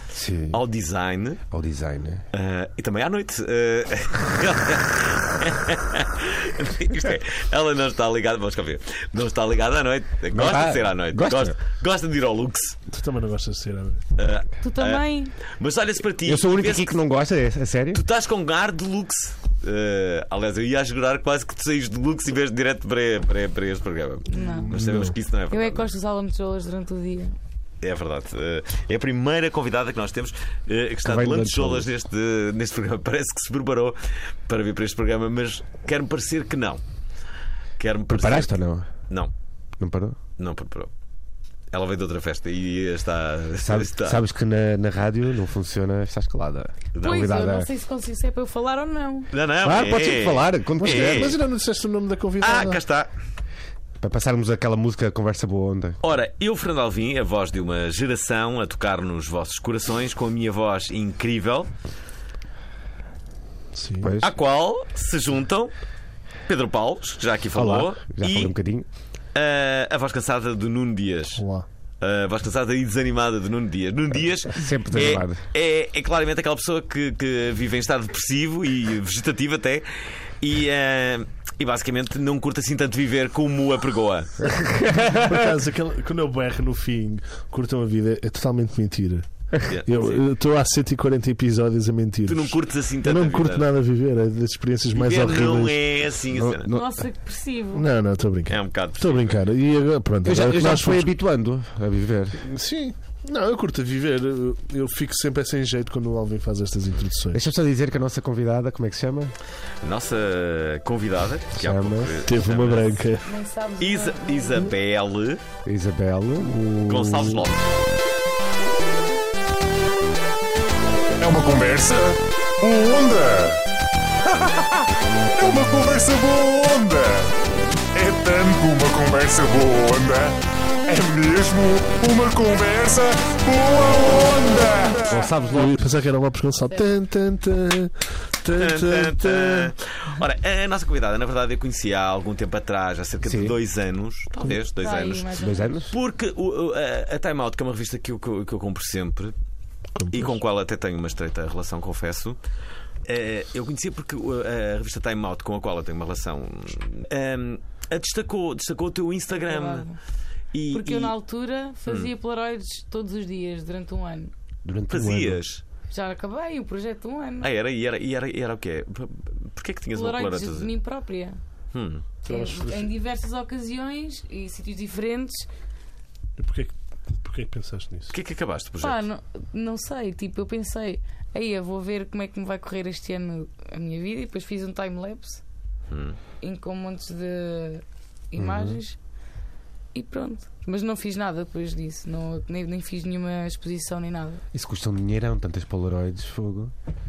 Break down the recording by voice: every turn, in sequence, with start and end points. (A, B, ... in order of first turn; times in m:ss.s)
0:00.1-0:00.6 A
0:00.5-0:01.4 B
0:01.5-0:02.2 A
0:02.3-0:12.8 B
0:10.3-0:11.5 A
0:12.9-0:14.0 C
0:14.2-0:17.0 B
0:14.6-0:15.3 D
0:16.2-0:18.0 A
0:17.9-0:25.9 B
0:24.3-0:24.7 D
0:24.3-0:25.1 C
0:25.5-0:27.4 D
0:27.8-0:36.8 B
0:31.0-0:31.9 A
0:37.8-0:38.5 B
0:38.1-0:38.9 A
0:39.8-0:40.2 A
0:40.4-0:40.9 B
0:41.7-0:44.2 B
0:43.6-0:47.7 A
0:46.9-0:47.2 B
0:47.0-0:49.3 D
0:49.3-0:51.4 B
0:49.6-0:51.4 A
0:50.8-0:52.8 C
0:52.4-0:53.1 B
0:54.0-0:56.0 A
0:56.0-1:01.7 B
1:03.7-1:04.2 C
1:04.0-1:04.3 A
1:04.2-1:05.7 B
1:06.5-1:08.5 B
1:07.5-1:08.8 A
1:09.3-1:11.4 B
1:11.4-1:11.6 C
1:12.0-1:24.5 B
1:14.5-1:15.4 A
1:24.4-1:25.2 A
1:25.1-1:35.8 C
1:29.7-1:30.2 B
1:32.3-1:33.7 B
1:34.9-1:36.7 B
1:36.3-1:37.0 A
1:36.7-1:37.9 D
1:37.7-1:41.1 C
1:38.5-1:39.4 B
1:40.2-1:42.4 A
1:42.4-1:47.4 C
1:47.3-1:49.3 A
1:49.8-1:53.2 B
1:51.6-1:52.3 A
1:52.2-1:53.2 C
1:53.2-1:54.7 D
1:53.8-1:55.4 B
1:55.6-1:57.5 A
1:56.8-1:57.6 B
2:01.2-2:03.6 E
2:04.3-2:07.3 E
2:07.9-2:10.4 E
2:10.9-2:15.3 E
2:15.1-2:15.7 A
2:15.5-2:19.7 C
2:18.6-2:25.3 B
2:23.2-2:23.6 A
2:24.4-2:25.8 D
2:25.3-2:25.9 A
2:25.9-2:29.3 B
2:30.0-2:30.3 C
2:30.0-2:32.4 B
2:33.0-2:39.9 B
2:39.3-2:40.0 D
2:40.5-2:41.1 B
2:40.7-2:44.3 D
2:44.6-2:45.4 A
2:44.9-2:45.6 B
2:44.9-2:45.4 C
2:45.9-2:47.5 D
2:47.4-2:50.7 B
2:49.9-2:51.4 D
2:51.7-2:52.0 B
2:52.2-2:52.9 C
2:52.2-2:55.5 D
2:56.4-2:58.1 C
2:58.1-2:59.0 B
2:58.8-3:05.4 D
3:05.9-3:06.2 B
3:06.4-3:09.0 D
3:08.4-3:08.8 A
3:09.9-3:14.4 D
3:14.5-3:16.7 A